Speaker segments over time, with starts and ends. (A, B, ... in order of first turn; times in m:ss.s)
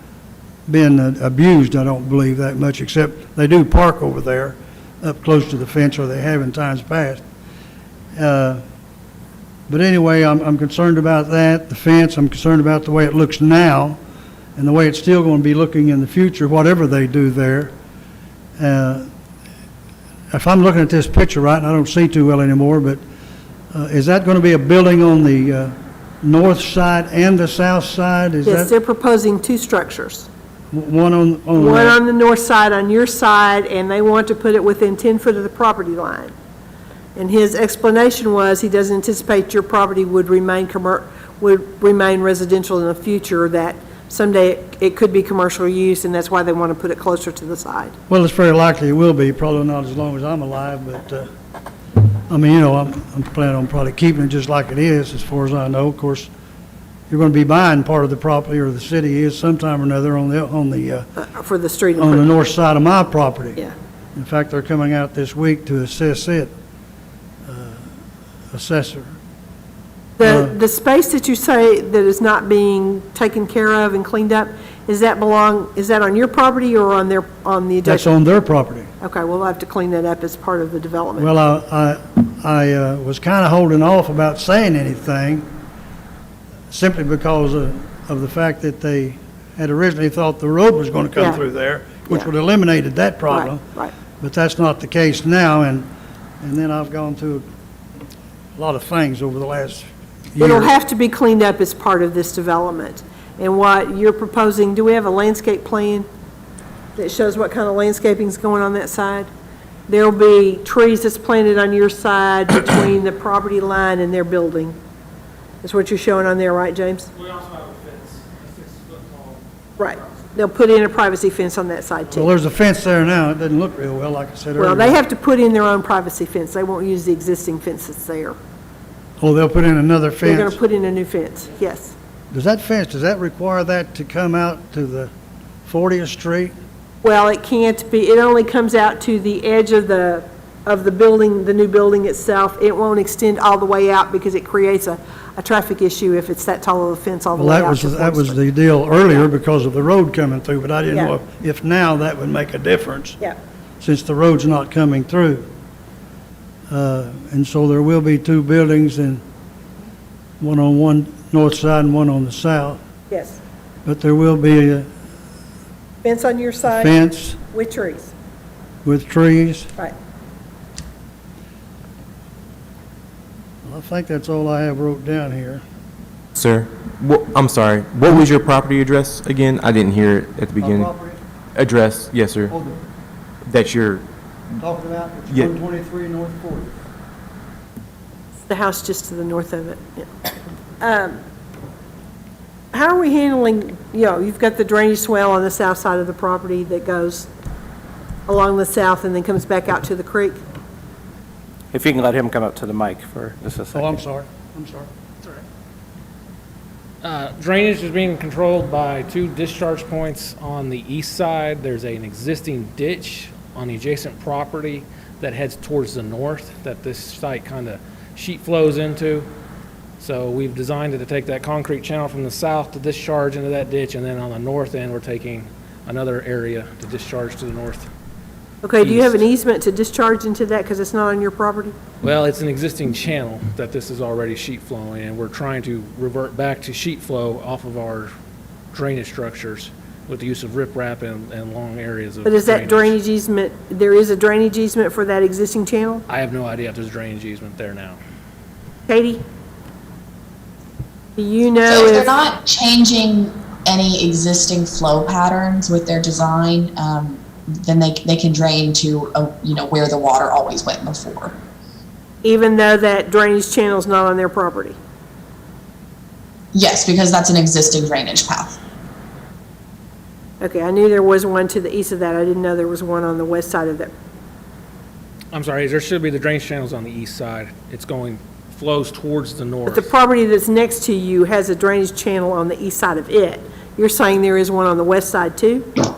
0:00.7-0:07.2 A
0:08.2-0:08.6 A
0:09.7-0:14.0 A
0:14.6-0:17.7 A
0:18.6-0:19.1 A
0:20.3-0:23.0 A
0:23.7-0:28.7 A
0:28.4-0:30.3 B
0:30.7-0:32.0 A
0:31.6-0:36.3 B
0:37.2-0:48.0 B
0:48.1-0:51.3 A
0:52.3-0:56.3 A
0:57.1-1:01.1 A
1:01.2-1:02.3 B
1:02.0-1:03.6 A
1:04.2-1:06.5 A
1:07.4-1:07.9 A
1:08.5-1:09.2 A
1:10.2-1:18.1 B
1:10.2-1:10.5 A
1:17.8-1:18.9 A
1:19.0-1:21.3 B
1:21.2-1:25.5 A
1:26.7-1:33.6 A
1:33.3-1:33.9 B
1:34.2-1:35.9 A
1:36.4-1:37.5 A
1:38.6-1:40.7 A
1:40.4-1:46.1 B
1:47.0-1:49.3 B
1:49.9-1:54.8 B
1:55.6-1:57.1 B
1:57.1-2:00.2 C
1:59.8-2:02.3 B
2:02.1-2:05.0 A
2:04.6-2:08.4 B
2:09.2-2:10.6 A
2:10.2-2:11.9 B
2:12.3-2:15.1 A
2:15.6-2:16.6 A
2:17.0-2:28.4 B
2:27.4-2:33.2 A
2:30.9-2:31.2 B
2:33.8-2:35.5 A
2:36.7-2:39.2 A
2:40.4-2:42.8 A
2:43.1-2:43.4 B
2:43.8-2:44.9 A
2:46.0-2:47.0 B
2:46.7-2:47.4 A
2:47.5-2:48.1 B
2:48.8-2:49.7 A
2:53.6-2:55.6 A
2:56.4-3:00.9 D
3:00.6-3:01.2 A
3:01.6-3:02.5 D
3:02.5-3:02.8 A
3:03.5-3:04.1 D
3:04.6-3:06.8 A
3:05.3-3:05.5 D
3:08.5-3:10.1 B
3:10.8-3:11.2 B
3:12.7-3:17.3 B
3:18.3-3:20.4 B
3:21.7-3:24.0 E
3:23.7-3:24.9 A
3:27.0-3:39.3 C
3:40.0-3:47.9 C
3:48.6-3:51.8 B
3:48.8-3:49.2 C
3:52.0-3:58.1 C
3:58.7-4:03.0 C
4:02.2-4:06.0 B
4:06.1-4:08.0 C
4:08.9-4:09.2 B
4:11.2-4:12.1 B
4:11.6-4:21.4 F
4:22.2-4:24.8 B
4:26.5-4:28.6 F
4:30.4-4:33.9 B
4:35.3-4:39.9 C
4:39.7-4:45.7 B